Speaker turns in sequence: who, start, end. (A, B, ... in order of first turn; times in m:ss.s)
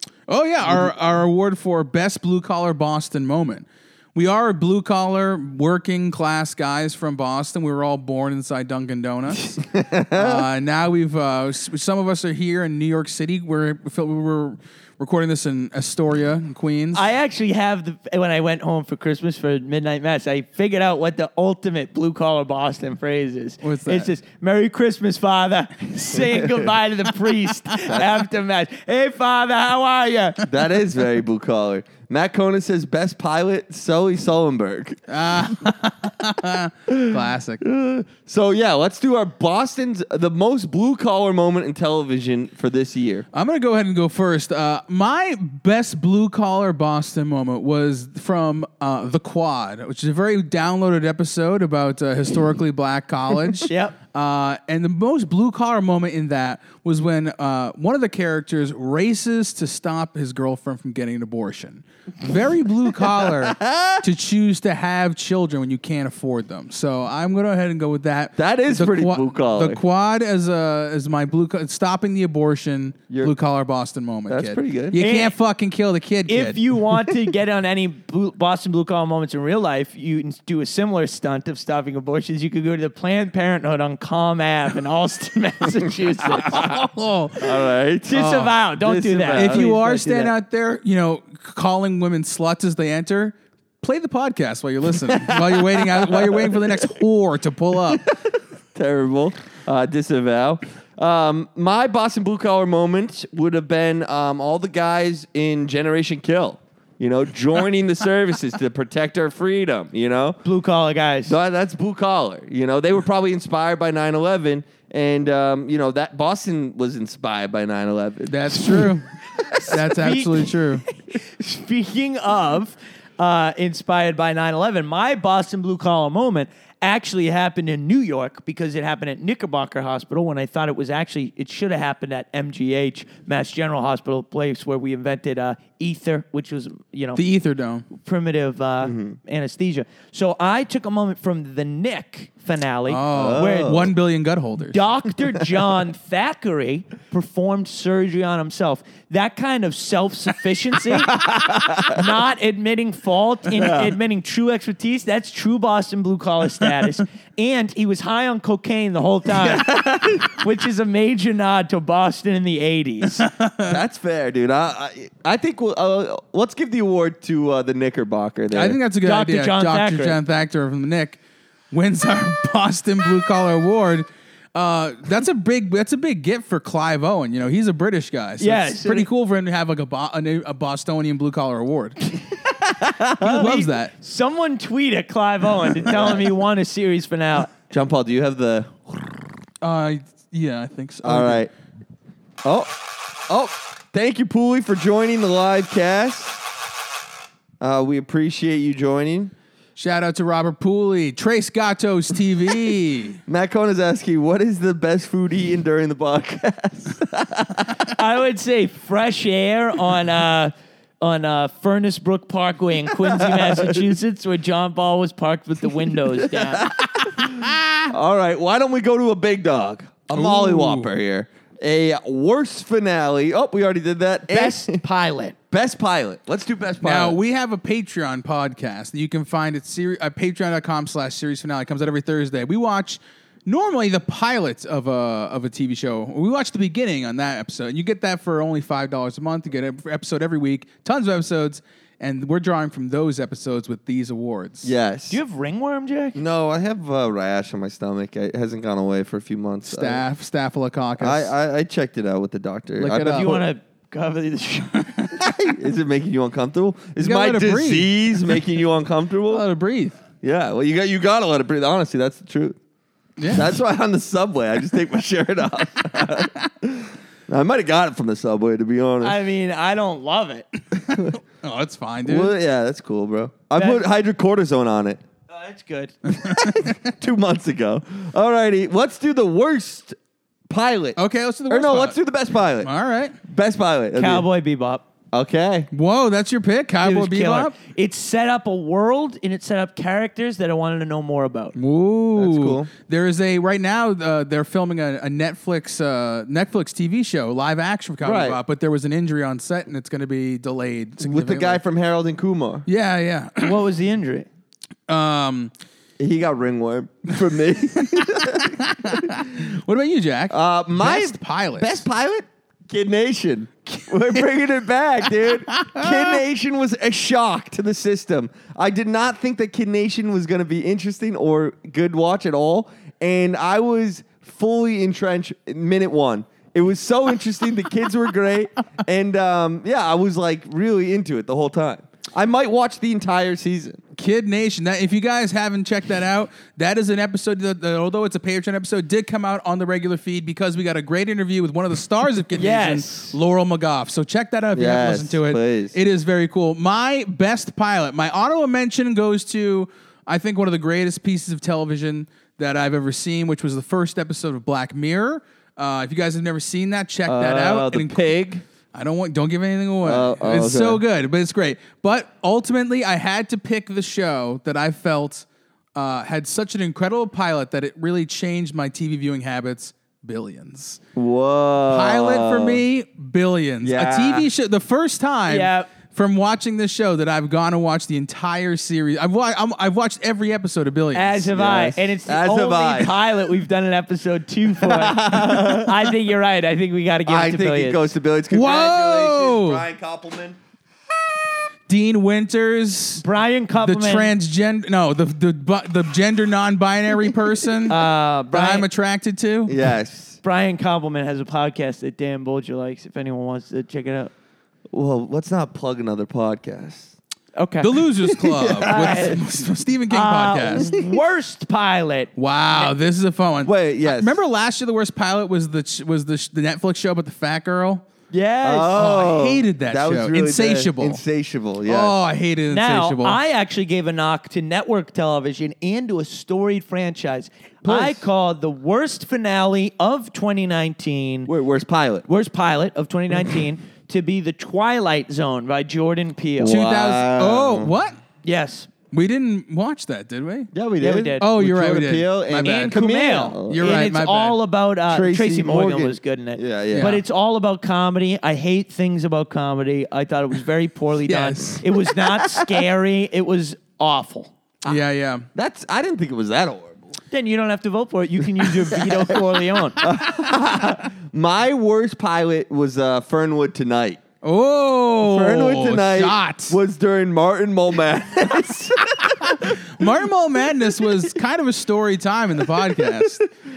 0:00.3-0:09.5 A
0:00.6-0:00.9 B
0:09.4-0:10.4 B
0:10.1-0:17.1 A
0:16.9-0:30.4 C
0:23.6-0:24.1 A
0:30.4-0:35.0 B
0:35.1-0:37.6 A
0:36.9-0:43.2 B
0:43.3-1:16.6 A
0:53.6-0:53.9 C
1:03.0-1:04.0 B
1:08.4-1:09.8 B
1:14.3-1:15.0 B
1:15.0-1:15.3 C
1:16.3-1:26.7 C
1:26.3-1:28.5 A
1:27.4-1:29.7 B
1:28.1-1:30.3 C
1:29.3-1:38.1 A
1:35.0-1:36.9 B
1:38.7-1:50.4 B
1:50.4-1:51.4 C
1:51.2-1:58.9 B
1:58.3-1:59.0 A
1:59.4-2:17.2 C
1:59.7-2:00.8 A
2:17.2-2:17.9 A
2:17.9-2:23.8 C
2:18.8-2:19.1 B
2:22.9-2:24.8 A
2:23.1-2:23.9 B
2:24.6-2:31.2 C
2:31.1-2:32.0 B
2:31.8-2:43.2 C
2:33.5-2:33.9 B
2:39.4-2:40.3 B
2:43.2-2:43.8 A
2:43.6-2:48.8 B
2:48.5-2:51.2 A
2:49.0-2:50.2 C
2:51.7-3:02.0 A
2:58.4-2:59.1 C
3:02.8-3:03.4 B
3:03.2-3:03.9 A
3:03.2-3:07.5 C
3:05.8-3:06.3 B
3:07.5-3:09.3 B
3:09.6-3:11.4 A
3:11.0-3:11.5 B
3:12.4-3:16.4 B
3:17.6-3:19.3 B
3:19.8-3:23.2 A
3:23.3-3:27.8 B
3:27.8-3:36.7 C
3:33.0-3:33.8 B
3:36.2-3:44.8 B
3:37.4-3:37.8 A
3:40.1-3:40.9 A
3:44.3-3:45.3 C
3:45.5-3:47.2 B
3:46.8-4:04.7 A
4:04.6-4:05.2 B
4:05.1-4:06.2 C
4:06.1-4:10.0 B
4:09.7-4:11.3 A
4:11.0-4:13.4 B
4:12.8-4:13.4 A
4:13.0-4:15.0 C
4:15.2-4:19.4 B
4:17.0-4:17.9 A
4:19.3-4:20.0 A
4:20.2-4:22.6 B
4:23.2-4:23.6 A
4:23.3-4:29.2 B
4:29.0-4:30.5 C
4:30.9-4:32.3 A
4:32.0-4:35.0 B
4:33.6-4:33.8 C
4:35.3-4:36.0 C
4:36.1-4:40.0 B
4:36.2-4:36.7 A
4:40.5-4:42.7 B
4:41.0-4:42.0 A
4:42.6-4:43.2 A
4:43.2-4:44.3 B
4:43.9-4:44.8 C
4:45.1-4:45.7 B
4:45.7-4:47.5 A
4:46.8-4:51.5 C
4:51.6-5:01.6 A
4:52.2-4:52.7 B
4:58.0-4:58.4 B
5:01.0-5:02.6 B
5:02.7-5:03.6 A
5:03.4-5:04.3 C
5:04.9-5:05.5 A
5:06.0-5:09.2 B
5:07.8-5:11.8 A
5:10.3-5:33.8 B
5:15.5-5:16.2 A
5:34.0-5:58.1 A
5:42.4-5:43.1 C
5:44.5-5:45.8 B
5:57.1-5:58.4 B
5:58.7-6:10.8 A
5:59.8-6:00.8 B
6:11.0-6:12.6 B
6:11.7-6:21.3 A
6:13.6-6:14.3 B
6:15.3-6:15.7 C
6:20.9-6:27.9 C
6:21.3-6:23.0 B
6:24.6-6:25.9 B
6:27.0-6:30.4 B
6:28.3-6:29.6 A
6:31.7-6:33.0 A
6:33.0-6:34.1 C
6:33.6-6:39.6 A
6:37.7-6:38.7 C
6:39.5-6:40.2 B
6:40.2-6:44.1 C
6:44.7-6:46.9 B
6:47.4-6:47.8 C
6:47.6-6:50.7 A
6:48.4-6:49.2 C
6:48.6-6:49.0 B
6:49.9-6:52.7 C
6:50.7-6:51.0 B
6:52.2-6:57.8 A
6:53.4-6:54.2 B
6:58.1-6:59.1 C
6:58.4-7:02.0 B
6:58.7-7:01.0 A
7:01.6-7:03.2 A
7:02.5-7:11.3 C
7:07.6-7:08.0 B
7:11.3-7:12.0 B
7:12.1-7:16.6 C
7:16.4-7:17.7 B
7:16.4-7:18.0 A
7:18.2-7:18.7 C
7:18.9-7:20.5 A
7:20.5-7:23.8 B
7:20.8-7:21.2 C
7:21.2-7:22.8 A
7:22.4-7:34.3 C
7:23.5-7:24.4 A
7:24.9-7:27.0 B
7:26.7-7:27.0 A
7:31.1-7:31.6 A
7:34.6-7:35.2 A
7:35.3-7:36.9 B
7:37.1-7:39.8 C
7:39.8-7:44.0 B
7:44.2-7:46.6 A
7:45.0-7:49.6 B
7:49.4-7:53.2 A
7:52.8-7:53.1 B